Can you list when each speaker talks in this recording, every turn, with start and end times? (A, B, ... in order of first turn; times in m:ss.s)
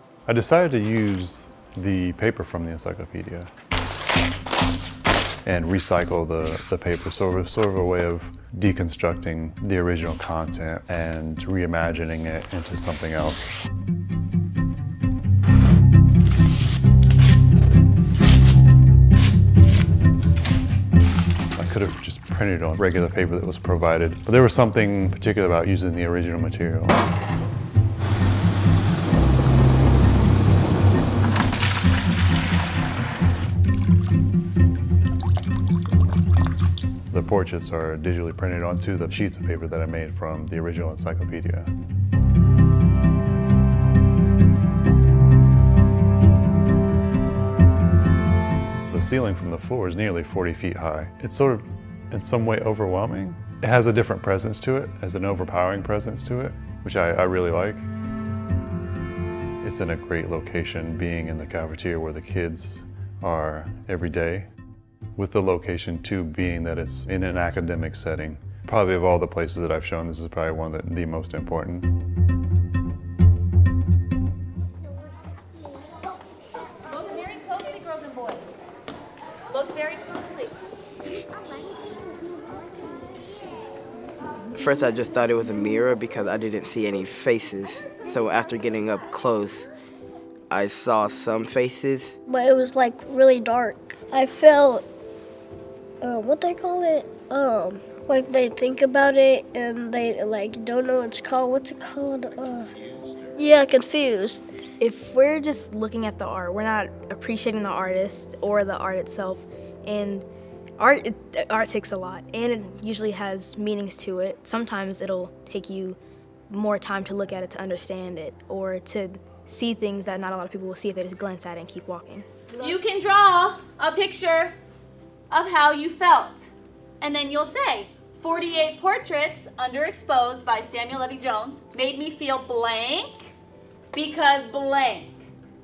0:00.3-0:03.5 A
0:05.4-0:13.6 A
0:21.6-0:27.0 A
0:37.1-0:41.7 A
0:48.9-0:57.9 A
0:59.6-1:04.5 A
1:05.2-1:11.9 A
1:16.9-1:18.6 B
1:19.5-1:20.5 B
1:24.6-1:29.7 C
1:30.5-1:32.2 C
1:32.3-1:34.8 D
1:36.0-1:42.7 D
1:43.4-1:44.4 D
1:44.8-1:50.3 E
1:50.8-1:56.0 E
1:56.5-2:02.7 E
2:02.6-2:04.6 B
2:05.3-2:13.3 B
2:13.9-2:15.2 B